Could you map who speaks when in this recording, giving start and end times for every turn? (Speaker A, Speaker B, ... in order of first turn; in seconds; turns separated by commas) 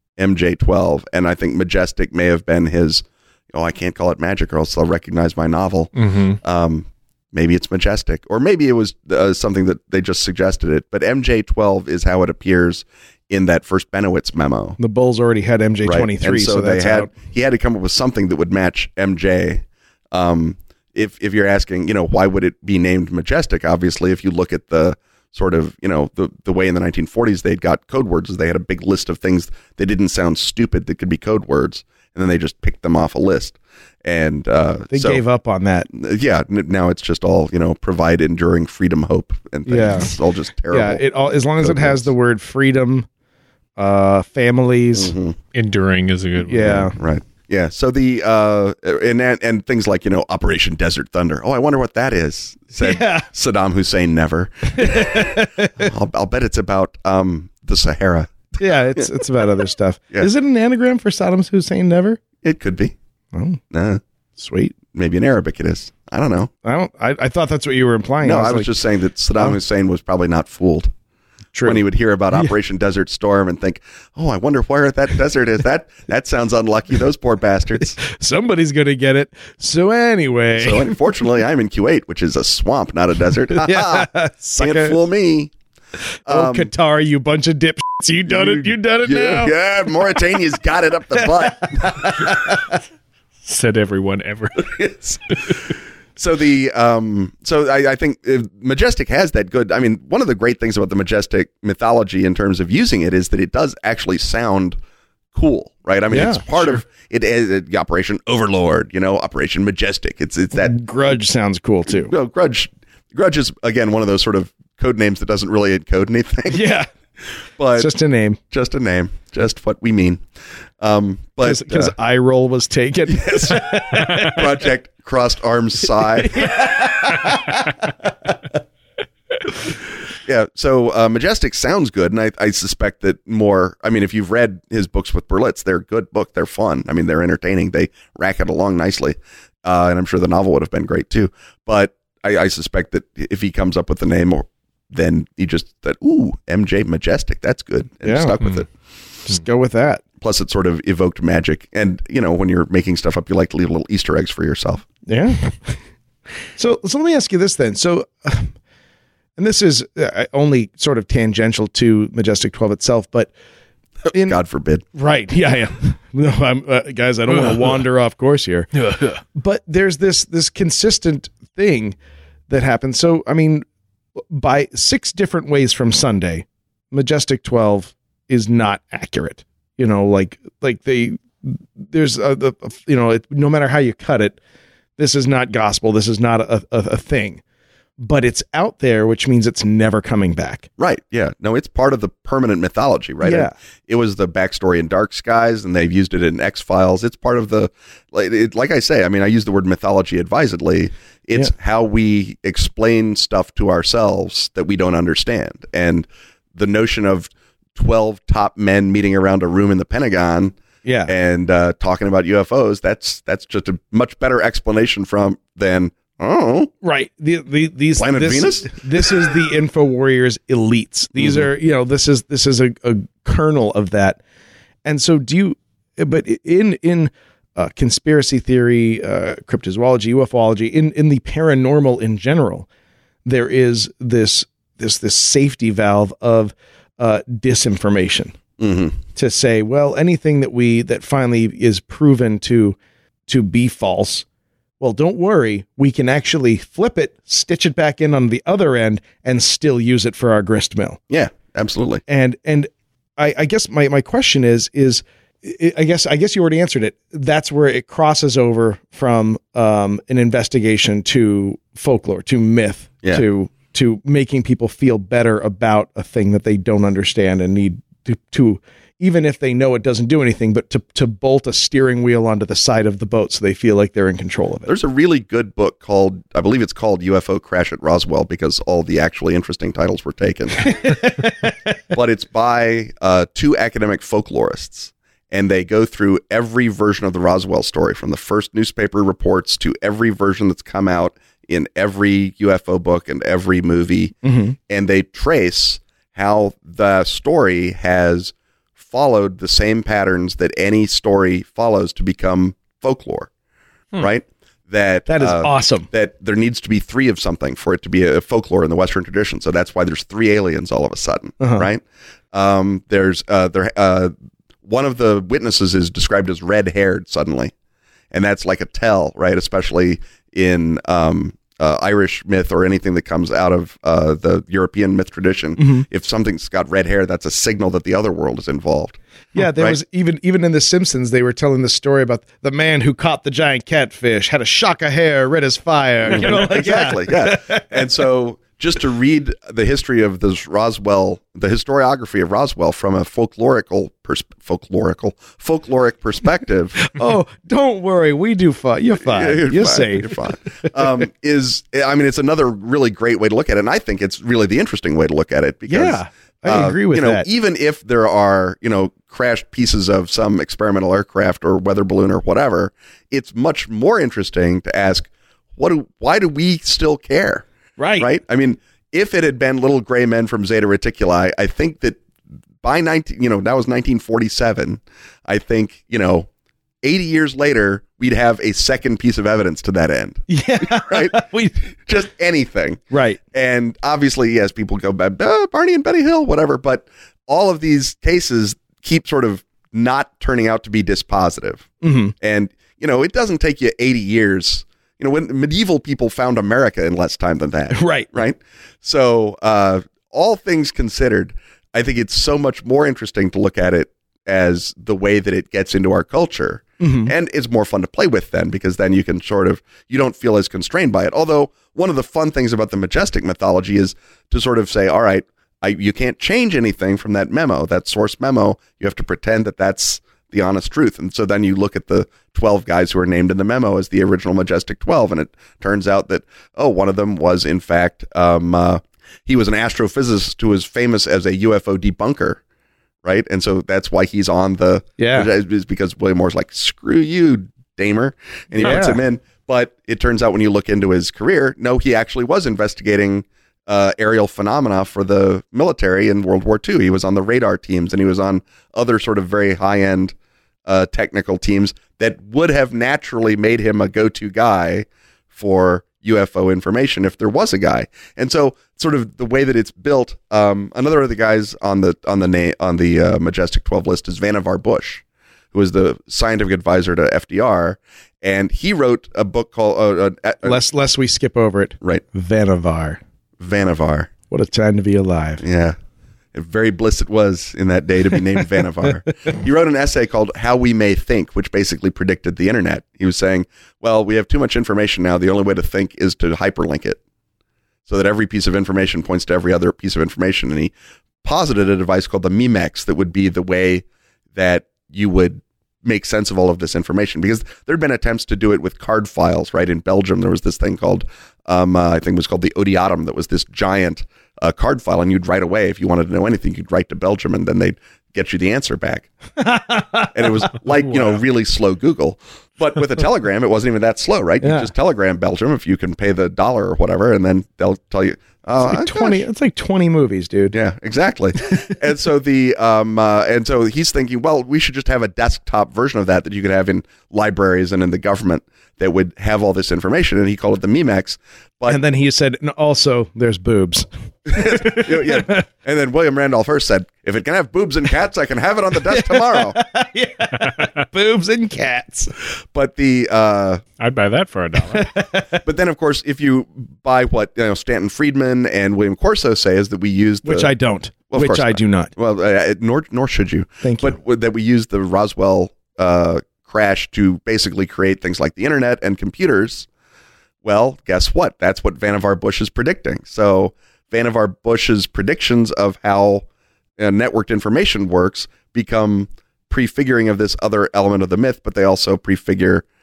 Speaker A: 0.2-14.8, Speaker B: 6.0-6.4, Speaker C: 14.8-17.1, Speaker A: 15.8-35.2, Speaker C: 34.9-35.9, Speaker A: 35.9-41.0, Speaker C: 39.6-40.1, Speaker C: 40.7-43.1, Speaker A: 41.6-42.1, Speaker C: 43.8-45.1, Speaker A: 45.0-45.4, Speaker B: 45.5-46.9, Speaker C: 46.5-47.0, Speaker A: 46.6-59.1, Speaker C: 52.8-53.3, Speaker C: 54.7-55.9, Speaker C: 58.6-62.2, Speaker A: 62.4-62.9, Speaker C: 63.3-63.6, Speaker A: 63.7-64.0, Speaker C: 64.4-64.8, Speaker A: 64.9-66.5, Speaker C: 66.6-68.7, Speaker A: 68.2-70.9, Speaker C: 71.5-72.5, Speaker A: 71.6-78.0, Speaker C: 78.0-81.0, Speaker A: 80.6-85.5, Speaker C: 83.5-85.0, Speaker A: 86.2-86.7, Speaker C: 86.3-89.5, Speaker A: 88.3-92.4, Speaker C: 91.2-92.5, Speaker B: 93.4-94.7, Speaker A: 94.6-95.5, Speaker A: 96.2-104.8, Speaker A: 105.3-110.7, Speaker C: 106.1-106.7, Speaker C: 110.5-112.1, Speaker A: 111.9-116.7, Speaker C: 116.5-116.9, Speaker A: 117.6-117.9, Speaker C: 117.8-118.4, Speaker A: 118.5-120.2, Speaker A: 120.8-121.9, Speaker C: 121.4-124.5, Speaker A: 123.1-126.9, Speaker C: 126.2-127.9, Speaker A: 130.2-148.7, Speaker C: 148.0-148.4, Speaker C: 149.3-150.0, Speaker A: 150.2-154.8, Speaker C: 155.1-155.8, Speaker C: 156.6-158.5, Speaker C: 159.4-163.3, Speaker A: 164.1-164.8, Speaker C: 164.1-164.4, Speaker C: 164.9-171.9, Speaker B: 168.8-169.2, Speaker C: 172.5-173.6, Speaker C: 174.3-184.4, Speaker C: 185.0-187.4, Speaker C: 188.0-190.7, Speaker A: 190.8-216.7, Speaker C: 193.2-193.5, Speaker C: 210.8-211.1, Speaker C: 216.8-224.2, Speaker A: 218.0-219.3, Speaker A: 221.2-221.5, Speaker C: 224.8-232.7, Speaker C: 233.2-238.3, Speaker A: 238.6-239.0, Speaker C: 239.1-242.8, Speaker C: 243.3-244.2, Speaker C: 244.8-251.0, Speaker A: 251.1-252.0, Speaker C: 252.1-274.7, Speaker A: 274.6-281.0, Speaker C: 280.7-281.3, Speaker A: 281.9-294.1, Speaker C: 294.2-294.6, Speaker A: 294.7-303.3, Speaker A: 303.9-317.5, Speaker C: 305.1-305.9, Speaker C: 311.4-311.7, Speaker A: 318.1-329.8, Speaker C: 325.6-325.8, Speaker C: 329.3-337.8, Speaker A: 336.0-346.9, Speaker C: 346.8-350.8, Speaker A: 349.0-367.4, Speaker C: 355.7-357.2, Speaker C: 367.8-368.1, Speaker A: 368.0-372.0, Speaker A: 372.6-376.3, Speaker A: 376.8-391.7, Speaker C: 380.3-381.6, Speaker C: 382.9-383.2, Speaker C: 391.8-392.1, Speaker A: 392.2-432.4, Speaker C: 397.7-398.1, Speaker C: 406.8-407.1, Speaker A: 433.0-450.1, Speaker C: 435.0-435.3, Speaker C: 438.6-439.0, Speaker A: 450.6-470.6, Speaker C: 470.4-473.0, Speaker A: 473.4-474.1, Speaker C: 474.3-475.4, Speaker A: 475.4-475.8, Speaker A: 476.3-487.0, Speaker A: 487.9-490.7, Speaker A: 491.2-509.1, Speaker C: 509.4-510.5, Speaker A: 510.1-519.2, Speaker C: 514.4-514.7, Speaker C: 518.6-520.5, Speaker A: 520.5-531.8, Speaker C: 531.7-535.4, Speaker A: 534.2-539.6, Speaker C: 538.8-542.1, Speaker B: 540.3-540.8, Speaker A: 542.5-543.6, Speaker B: 543.8-544.9, Speaker C: 544.7-545.4, Speaker A: 545.4-550.5, Speaker C: 550.2-551.9, Speaker A: 551.1-559.7, Speaker C: 553.6-553.9, Speaker A: 560.4-566.2, Speaker A: 566.8-572.6